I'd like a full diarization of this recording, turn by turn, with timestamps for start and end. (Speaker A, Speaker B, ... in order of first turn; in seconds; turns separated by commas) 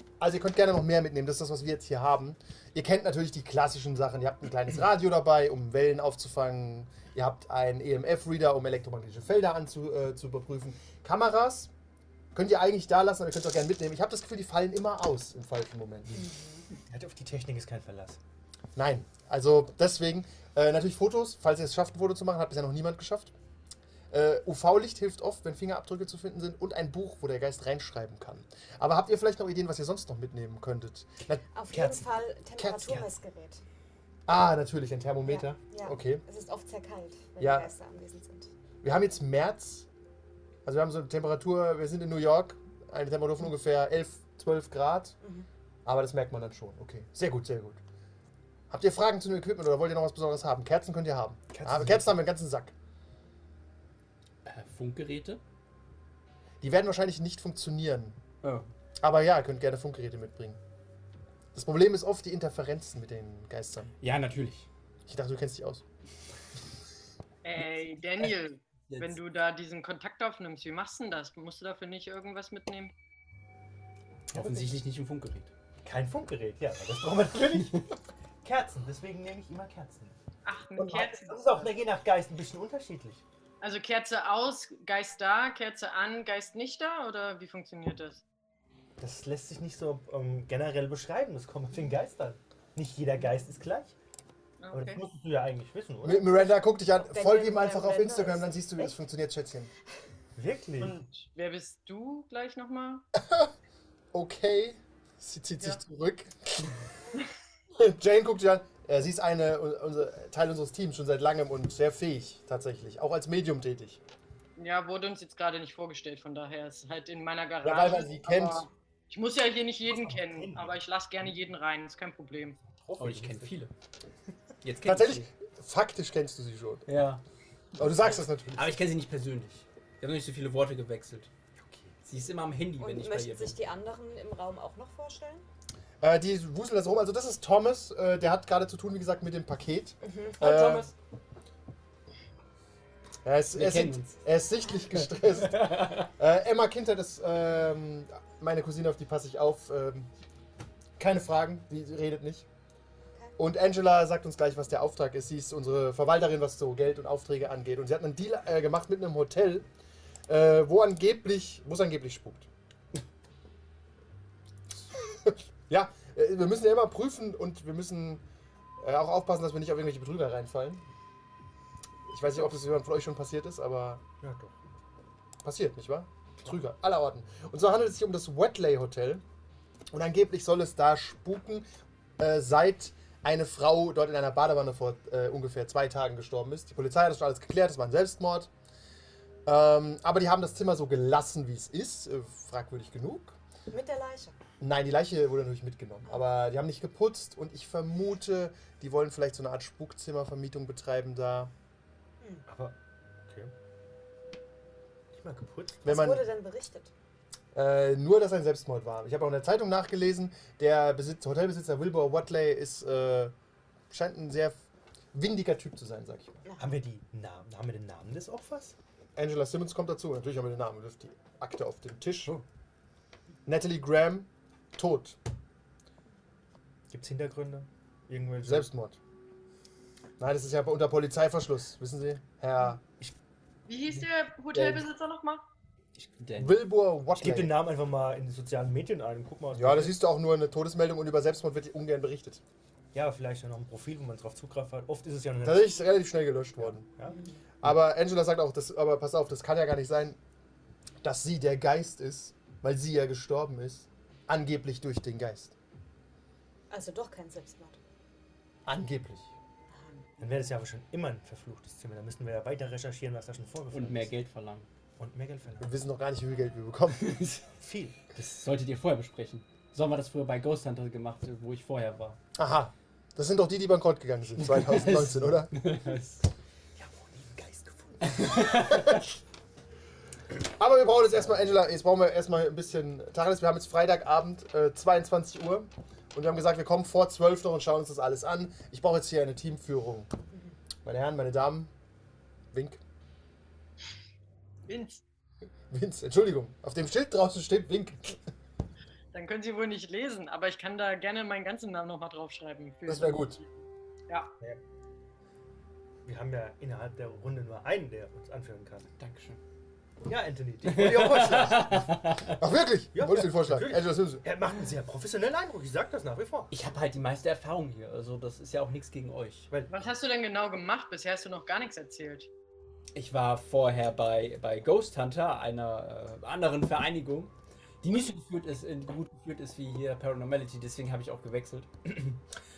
Speaker A: 0.2-11.7, Speaker A: 12.3-16.2, Speaker B: 16.7-18.2, Speaker A: 18.8-23.3, Speaker A: 24.1-32.0, Speaker C: 31.5-33.6, Speaker A: 32.6-33.1, Speaker A: 34.3-36.2, Speaker C: 35.2-38.5, Speaker A: 37.4-37.7, Speaker A: 38.8-39.9, Speaker A: 40.6-45.2, Speaker C: 45.2-45.5, Speaker A: 45.9-47.8, Speaker A: 48.7-52.7, Speaker B: 51.5-52.2, Speaker D: 54.5-55.4, Speaker A: 56.6-58.2, Speaker D: 58.4-58.7, Speaker A: 59.0-60.6, Speaker A: 61.5-63.9, Speaker D: 64.0-64.7, Speaker A: 65.1-65.8, Speaker E: 67.4-72.9, Speaker D: 68.9-69.2, Speaker D: 74.3-75.5, Speaker B: 75.8-77.9, Speaker B: 78.4-80.2, Speaker E: 80.5-81.7, Speaker B: 80.8-83.2, Speaker E: 83.6-88.2, Speaker B: 89.0-94.0, Speaker E: 94.6-95.0, Speaker B: 94.7-96.3, Speaker A: 96.0-99.7, Speaker C: 96.9-98.9, Speaker B: 100.4-101.0, Speaker E: 100.8-103.0, Speaker A: 103.2-103.5, Speaker A: 104.1-106.8, Speaker A: 107.8-114.0, Speaker E: 114.6-122.6, Speaker A: 117.6-118.7, Speaker B: 119.9-120.8, Speaker B: 122.6-123.6, Speaker D: 123.0-123.7, Speaker D: 124.6-125.3, Speaker A: 124.8-126.9, Speaker D: 126.9-127.2, Speaker A: 127.8-128.8, Speaker D: 128.6-131.3, Speaker B: 131.6-132.0, Speaker D: 132.1-133.6, Speaker C: 132.8-135.4, Speaker A: 136.0-140.9, Speaker C: 140.0-140.4, Speaker D: 140.4-140.9, Speaker A: 143.2-150.1, Speaker D: 143.5-144.2, Speaker D: 145.0-146.1, Speaker A: 151.0-152.5, Speaker A: 153.4-159.7, Speaker A: 160.3-162.5, Speaker A: 164.9-168.2, Speaker A: 168.8-170.8, Speaker A: 172.1-174.0, Speaker B: 174.2-174.6, Speaker A: 175.4-179.2, Speaker A: 179.9-181.7, Speaker A: 182.2-188.5, Speaker A: 189.4-193.4, Speaker C: 193.7-194.4, Speaker A: 194.6-201.5, Speaker B: 202.5-203.5, Speaker B: 205.1-205.9, Speaker A: 205.8-206.3, Speaker C: 205.8-206.9, Speaker A: 207.5-213.3, Speaker A: 213.9-214.6, Speaker A: 215.1-216.4, Speaker B: 216.6-218.8, Speaker A: 219.2-222.3, Speaker A: 223.5-225.2, Speaker B: 226.9-228.7, Speaker A: 228.4-229.0, Speaker A: 230.2-232.8, Speaker E: 233.7-235.4, Speaker A: 234.5-234.8, Speaker D: 236.0-236.6, Speaker A: 236.4-237.6, Speaker B: 237.2-240.0, Speaker A: 239.5-242.4, Speaker B: 242.9-245.7, Speaker A: 245.4-246.9, Speaker B: 246.6-247.2, Speaker A: 247.6-250.2, Speaker A: 251.0-255.6, Speaker C: 256.7-257.8, Speaker A: 258.7-259.3, Speaker C: 259.7-260.1, Speaker B: 260.2-264.1, Speaker D: 263.7-264.7, Speaker B: 265.0-265.7, Speaker A: 265.6-267.2, Speaker D: 266.9-267.5, Speaker B: 267.6-268.0, Speaker D: 268.1-272.2, Speaker A: 272.4-275.5, Speaker D: 274.4-276.3, Speaker B: 276.8-278.7, Speaker D: 278.1-279.0, Speaker A: 278.6-279.0, Speaker A: 280.4-290.1, Speaker A: 290.9-291.7, Speaker A: 292.5-292.8, Speaker E: 294.7-295.0, Speaker A: 295.7-298.2, Speaker E: 299.1-303.4, Speaker A: 302.9-303.4, Speaker E: 304.1-304.3, Speaker B: 306.0-308.9, Speaker D: 309.0-309.4, Speaker B: 310.1-311.9, Speaker D: 310.6-312.4, Speaker A: 312.4-314.2, Speaker B: 312.9-316.5, Speaker D: 316.5-319.5, Speaker E: 319.7-322.3, Speaker D: 322.9-332.2